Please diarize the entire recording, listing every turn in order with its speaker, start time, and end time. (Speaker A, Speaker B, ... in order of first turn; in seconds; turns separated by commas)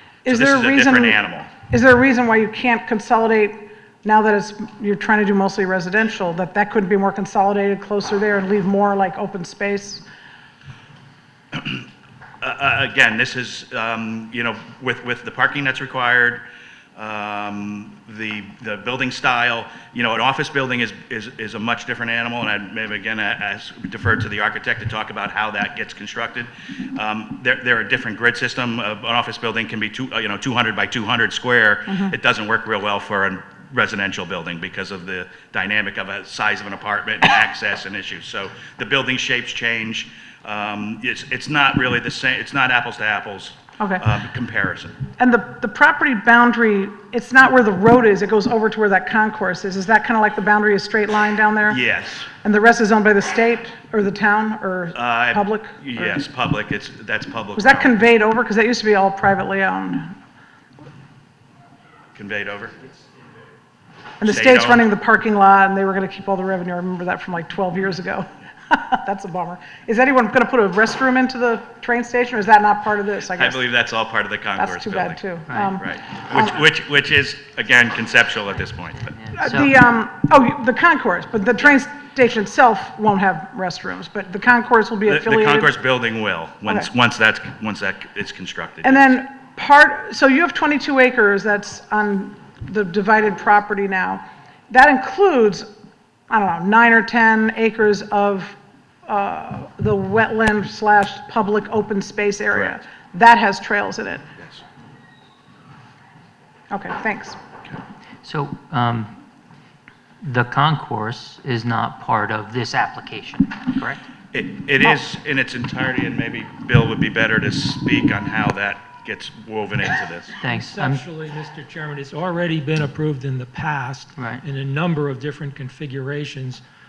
Speaker A: 0.2-1.2, Speaker B: 0.3-1.5, Speaker A: 1.7-10.1, Speaker B: 11.5-11.9, Speaker B: 12.4-16.4, Speaker B: 16.9-45.0, Speaker A: 45.2-51.8, Speaker B: 51.7-52.3, Speaker A: 52.4-56.2, Speaker B: 54.9-58.0, Speaker A: 57.6-60.1, Speaker B: 62.1-62.8, Speaker A: 64.2-73.6, Speaker B: 64.2-64.9, Speaker B: 73.3-75.2, Speaker A: 74.6-76.5, Speaker C: 75.5-75.7, Speaker B: 75.8-79.1, Speaker C: 78.9-79.7, Speaker A: 79.3-85.7, Speaker B: 85.0-89.1, Speaker A: 88.8-95.7, Speaker A: 96.3-104.2, Speaker B: 102.5-102.8, Speaker A: 106.7-107.4, Speaker C: 108.2-109.2, Speaker C: 110.2-114.0, Speaker B: 114.3-120.3, Speaker C: 120.4-121.0, Speaker D: 120.5-126.6, Speaker C: 124.2-124.4